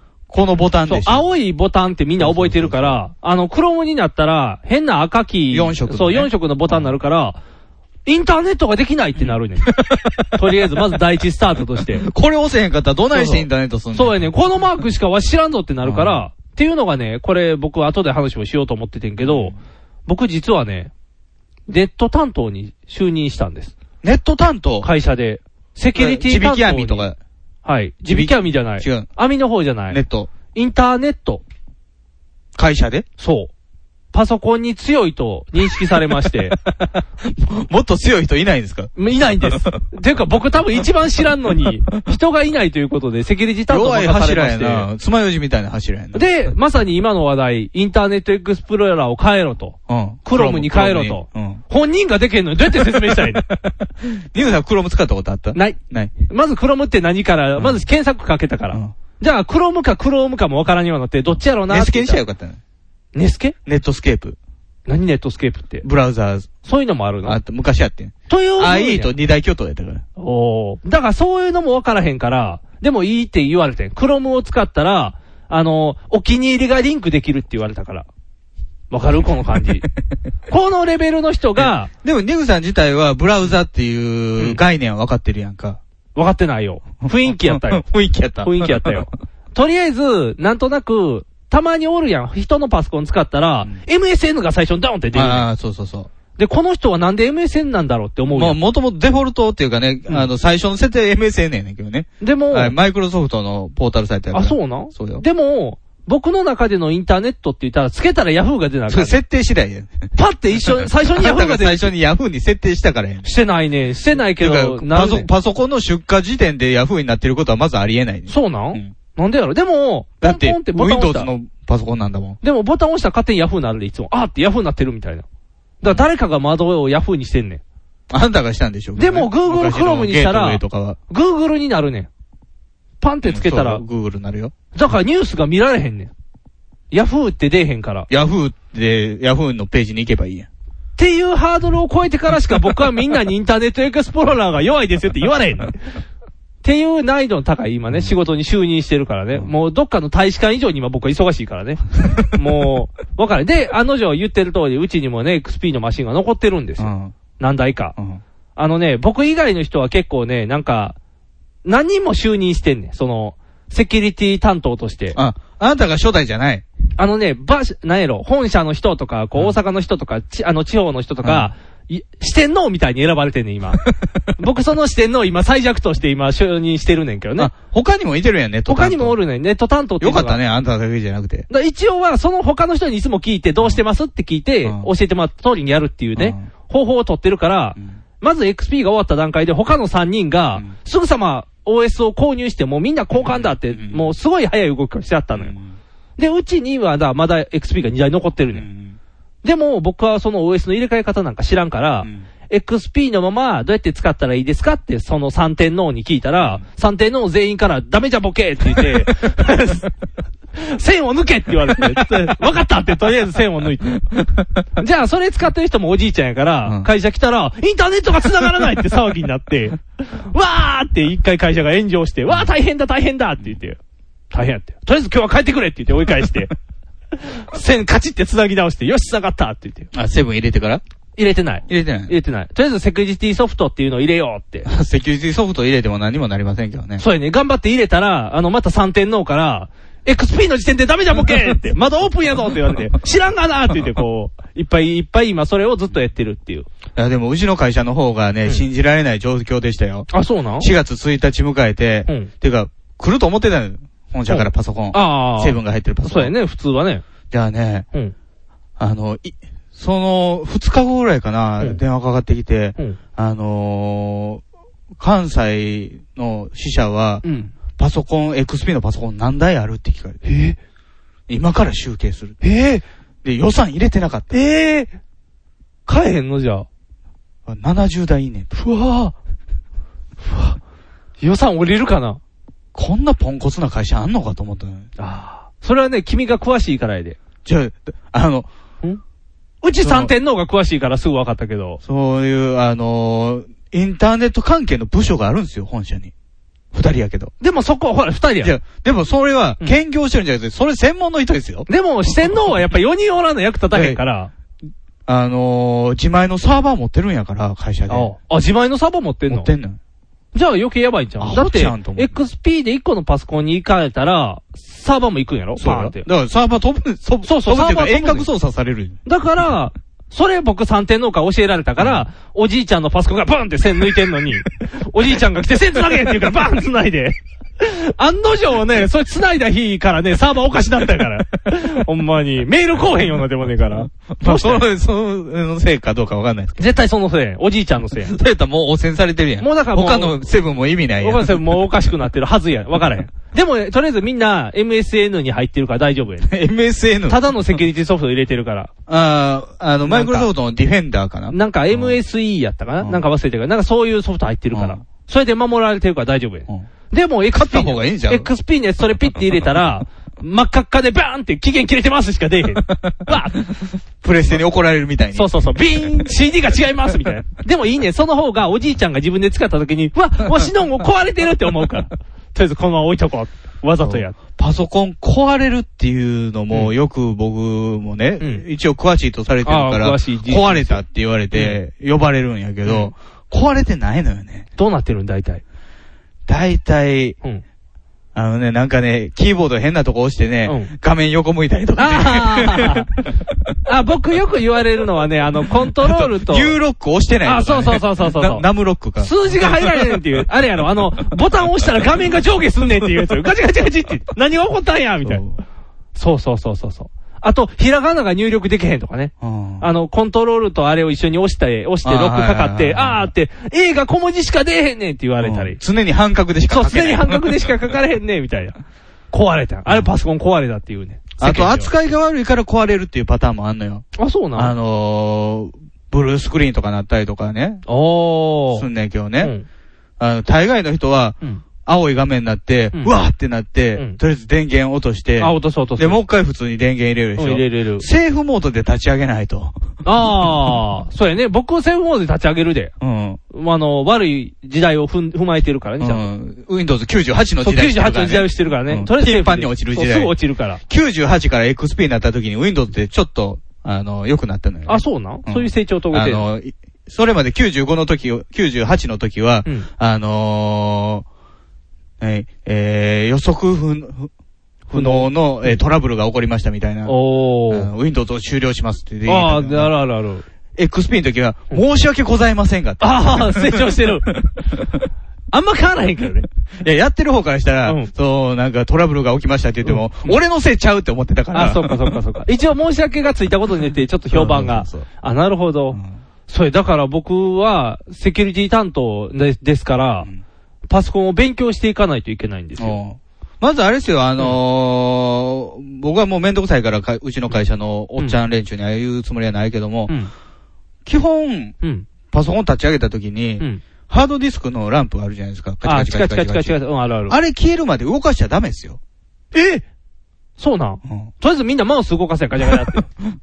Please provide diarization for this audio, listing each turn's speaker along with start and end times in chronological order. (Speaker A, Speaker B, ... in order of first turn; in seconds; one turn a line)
Speaker A: 0.3-1.2
Speaker B: 0.9-7.4
Speaker A: 2.2-3.0
Speaker A: 5.5-6.9
Speaker B: 8.1-9.7
Speaker A: 9.2-10.5
Speaker B: 10.3-12.1
Speaker A: 12.0-14.3
Speaker B: 13.1-19.5
Speaker A: 15.8-16.2
Speaker A: 19.2-19.6
Speaker B: 20.1-20.9
Speaker B: 21.7-23.7
Speaker A: 24.0-24.9
Speaker B: 24.8-27.1
Speaker A: 25.9-27.2
Speaker B: 27.6-30.0
Speaker A: 28.1-29.1
Speaker A: 29.9-30.3
Speaker B: 30.5-31.4
Speaker A: 32.6-33.1
Speaker B: 33.2-33.5
Speaker B: 34.1-36.6
Speaker A: 35.9-36.5
Speaker A: 37.2-39.8
Speaker B: 39.0-44.9
Speaker A: 43.7-46.2
Speaker B: 46.1-53.5
Speaker A: 49.9-51.6
Speaker A: 52.7-56.1
Speaker B: 55.5-62.2
Speaker A: 57.6-57.8
Speaker A: 61.7-62.6
Speaker B: 63.1-63.5
Speaker A: 63.7-64.4
Speaker B: 64.9-65.9
Speaker A: 65.8-66.5
Speaker B: 66.7-67.4
Speaker A: 67.2-70.0
Speaker B: 68.3-69.1
Speaker B: 70.2-78.1
Speaker B: 78.9-79.9
Speaker B: 80.5-81.9
Speaker A: 81.6-85.8
Speaker B: 86.2-87.8
Speaker A: 87.0-89.1
Speaker B: 88.4-95.5
Speaker A: 95.1-96.1
Speaker B: 96.4-98.6
Speaker A: 98.3-105.2
Speaker B: 102.2-102.7
Speaker B: 104.3-109.2
Speaker A: 108.9-113.3
Speaker B: 110.2-111.9
Speaker B: 113.2-115.3
Speaker A: 114.3-118.9
Speaker B: 118.3-121.3
Speaker A: 120.2-122.4
Speaker B: 122.4-125.2
Speaker B: 125.8-127.6
Speaker A: 128.1-131.0
Speaker B: 129.0-132.1
Speaker B: 133.0-133.8
Speaker A: 133.2-134.5
Speaker B: 134.7-136.1
Speaker B: 136.9-138.1
Speaker A: 138.1-140.5
Speaker B: 141.0-145.8
Speaker B: 146.6-157.9
Speaker A: 156.8-157.2
Speaker A: 158.0-158.2
Speaker B: 158.6-161.0
Speaker B: 161.7-165.2
Speaker A: 165.1-166.7
Speaker B: 167.0-173.8
Speaker A: 171.2-171.5
Speaker B: 174.4-177.5
Speaker A: 177.4-179.2
Speaker B: 178.7-180.4
Speaker A: 180.0-181.5
Speaker B: 181.5-195.5
Speaker A: 184.6-184.9
Speaker A: 186.2-186.5
Speaker A: 193.1-194.1
Speaker A: 195.3-195.7
Speaker B: 196.2-198.7
Speaker A: 198.5-199.0
Speaker B: 199.4-209.9
Speaker A: 206.4-206.6
Speaker A: 208.7-209.1
Speaker B: 210.6-214.0
Speaker A: 211.7-212.3
Speaker A: 214.1-214.6
Speaker B: 214.8-223.8
Speaker B: 224.3-226.5
Speaker B: 227.5-229.9
Speaker A: 229.9-230.8
Speaker B: 231.2-234.7
Speaker A: 231.7-232.1
Speaker A: 234.7-237.0
Speaker B: 237.0-246.7
Speaker A: 247.0-256.3
Speaker B: 250.1-250.7
Speaker B: 254.3-257.0
Speaker A: 257.3-257.9
Speaker A: 258.8-264.4
Speaker A: 265.0-267.2
Speaker B: 267.2-267.5
Speaker A: 267.8-270.2
Speaker B: 270.2-270.6
Speaker A: 271.3-272.4
Speaker B: 272.4-272.8
Speaker A: 273.2-274.4
Speaker B: 274.3-274.9
Speaker B: 275.9-276.7
Speaker A: 277.5-278.5
Speaker B: 278.5-279.1
Speaker B: 280.2-280.6
Speaker B: 281.2-282.2
Speaker A: 282.8-284.9
Speaker B: 285.0-287.2
Speaker A: 287.4-288.5
Speaker B: 289.6-291.8
Speaker A: 289.8-290.1
Speaker A: 291.8-296.1
Speaker A: 296.7-297.3
Speaker B: 297.4-298.5
Speaker A: 298.4-301.7
Speaker B: 301.7-304.3
Speaker A: 303.7-304.0
Speaker A: 305.1-308.1
Speaker B: 307.9-309.5
Speaker A: 309.3-309.8
Speaker B: 310.3-316.1
Speaker A: 311.2-312.1
Speaker A: 315.6-319.0
Speaker B: 317.2-318.3
Speaker B: 319.1-334.6
Speaker A: 321.8-322.1
Speaker A: 333.8-336.7
Speaker B: 336.6-338.1
Speaker A: 338.0-341.7
Speaker B: 339.4-340.2
Speaker B: 341.0-346.3
Speaker A: 346.2-347.2
Speaker B: 347.1-348.7
Speaker A: 348.9-352.0
Speaker B: 349.9-350.3
Speaker B: 351.3-363.4
Speaker A: 354.5-354.8
Speaker A: 357.3-358.3
Speaker A: 362.6-363.1
Speaker A: 364.0-365.3
Speaker B: 365.1-374.2
Speaker A: 373.8-384.5
Speaker B: 379.4-381.6
Speaker B: 382.6-382.9
Speaker B: 384.6-385.4
Speaker A: 386.3-387.2
Speaker A: 388.1-392.9
Speaker B: 390.5-390.7
Speaker B: 391.8-392.9
Speaker B: 393.7-396.6
Speaker A: 395.8-400.0
Speaker B: 397.2-398.4
Speaker B: 399.0-405.2
Speaker A: 405.0-405.4
Speaker B: 406.0-415.6
Speaker A: 409.2-409.7
Speaker A: 411.8-413.1
Speaker A: 415.2-417.5
Speaker B: 416.5-418.6
Speaker B: 419.1-421.7
Speaker A: 421.2-427.6
Speaker B: 424.0-424.5
Speaker B: 427.7-428.7
Speaker A: 428.5-429.3
Speaker B: 429.2-429.5
Speaker A: 430.0-439.6
Speaker B: 435.2-436.0
Speaker B: 437.2-437.9
Speaker B: 439.9-442.7
Speaker A: 442.8-443.2
Speaker B: 443.3-446.1
Speaker A: 445.8-450.1
Speaker B: 447.4-450.6
Speaker A: 450.7-461.1
Speaker B: 454.7-456.3
Speaker A: 462.0-464.1
Speaker A: 464.7-466.9
Speaker B: 464.7-465.6
Speaker B: 466.9-467.7
Speaker A: 467.5-469.7
Speaker B: 469.1-470.2
Speaker A: 470.6-474.8
Speaker B: 472.8-474.1
Speaker B: 475.3-476.3
Speaker A: 476.6-482.0
Speaker B: 477.7-477.9
Speaker B: 479.6-480.2
Speaker B: 481.3-490.1
Speaker A: 484.1-484.9
Speaker B: 490.7-492.8
Speaker A: 492.6-499.9
Speaker A: 500.9-501.6
Speaker B: 501.6-501.9
Speaker A: 502.1-508.8
Speaker B: 505.6-507.2
Speaker B: 509.3-509.6
Speaker B: 510.4-512.9
Speaker A: 510.9-511.1